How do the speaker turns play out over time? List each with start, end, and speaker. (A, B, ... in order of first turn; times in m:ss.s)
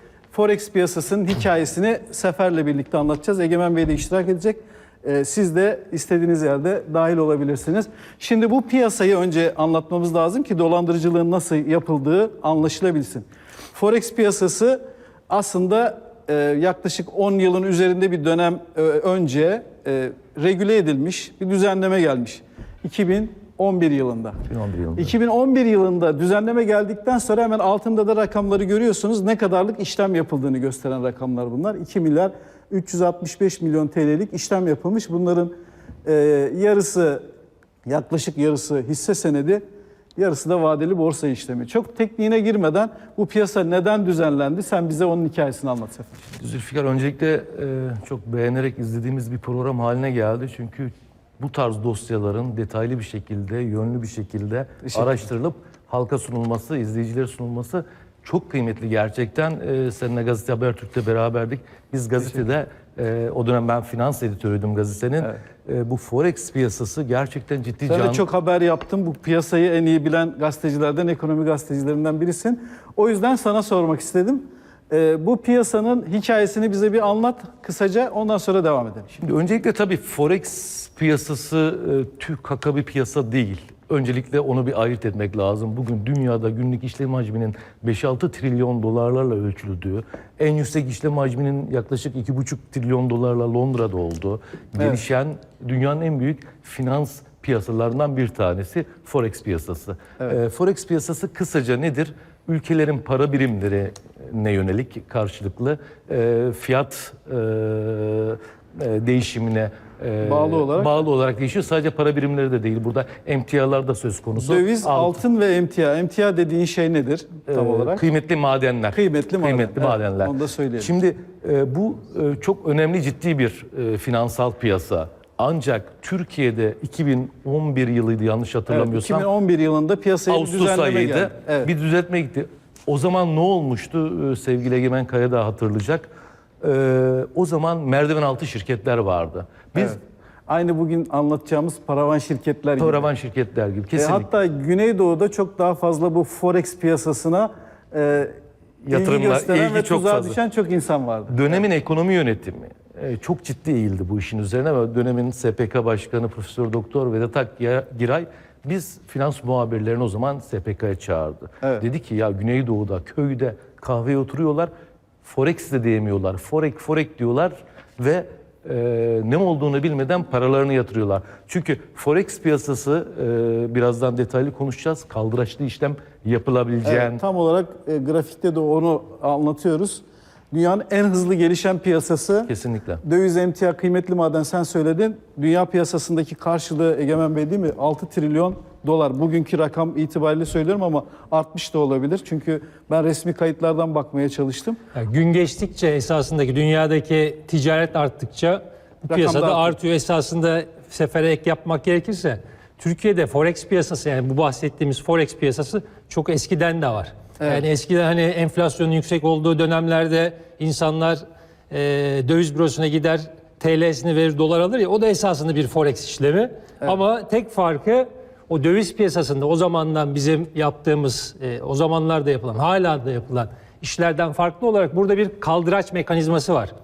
0:00.3-0:24.4 A
0:24.5-0:25.1 B
0:25.0-0:35.5 A
0:36.0-0:37.2 A
0:37.9-0:39.6 A
0:40.2-0:46.2 A
0:46.4-1:08.2 B
1:07.9-1:19.1 A
1:19.2-1:55.2 B
1:50.2-1:50.9 A
1:54.4-1:58.0 A
1:57.5-2:09.3 B
1:58.9-2:00.9 A
2:08.7-2:11.7 A
2:10.3-2:20.0 B
2:19.8-2:23.1 A
2:22.8-2:24.3 B
2:24.0-2:28.3 A
2:28.8-2:30.4 B
2:28.9-2:31.6 A
2:31.3-2:44.7 B
2:45.2-2:57.2 B
2:56.8-3:02.5 A
3:02.5-3:03.0 B
3:03.0-3:14.8 A
3:14.9-3:46.7 C
3:19.1-3:19.8 A